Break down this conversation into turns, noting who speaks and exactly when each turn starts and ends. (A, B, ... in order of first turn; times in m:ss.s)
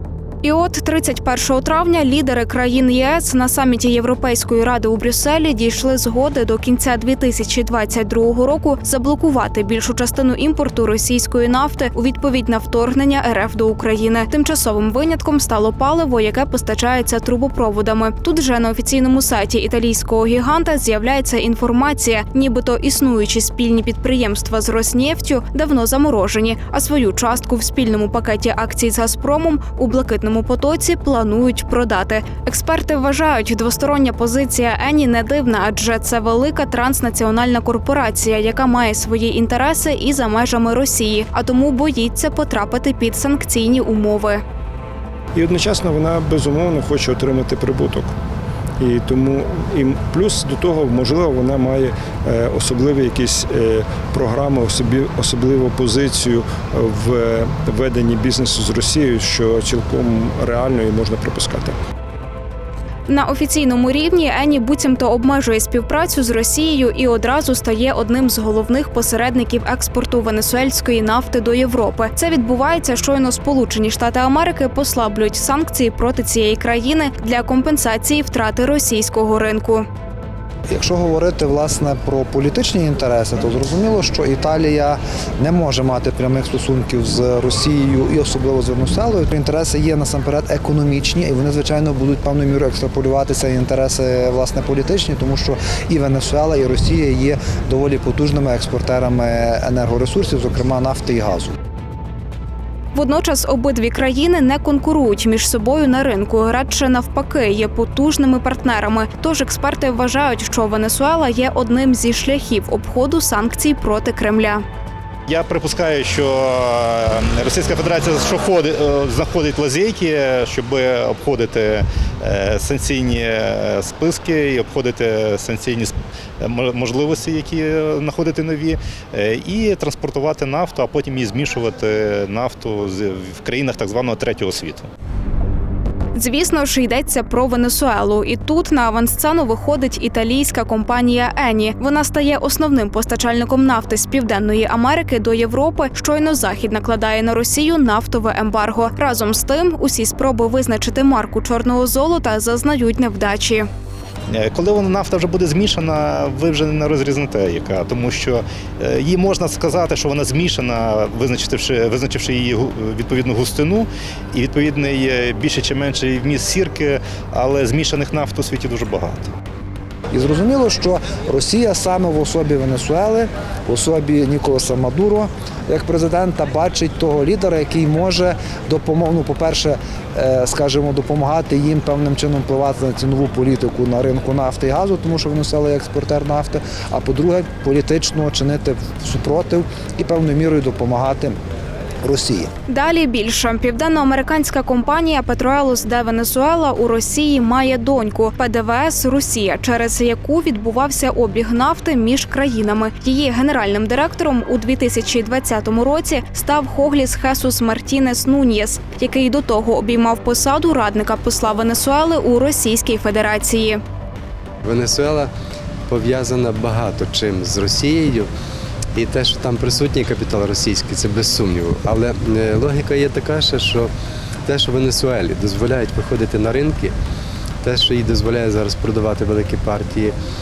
0:00.4-0:44.4 A
0:45.3-0:48.1 B
0:48.8-1:01.8 B
1:03.1-1:19.8 A
1:20.7-1:41.5 C
1:42.9-1:54.6 A
1:55.3-2:14.9 D
2:16.1-2:33.7 A
2:34.3-2:49.3 D
2:50.1-3:11.4 C
3:12.0-3:12.5 C
3:12.7-3:33.8 A
3:34.6-3:35.3 E
3:35.9-3:38.3 E
3:38.9-3:43.9 E
3:44.4-3:46.9 E
3:47.6-3:50.1 E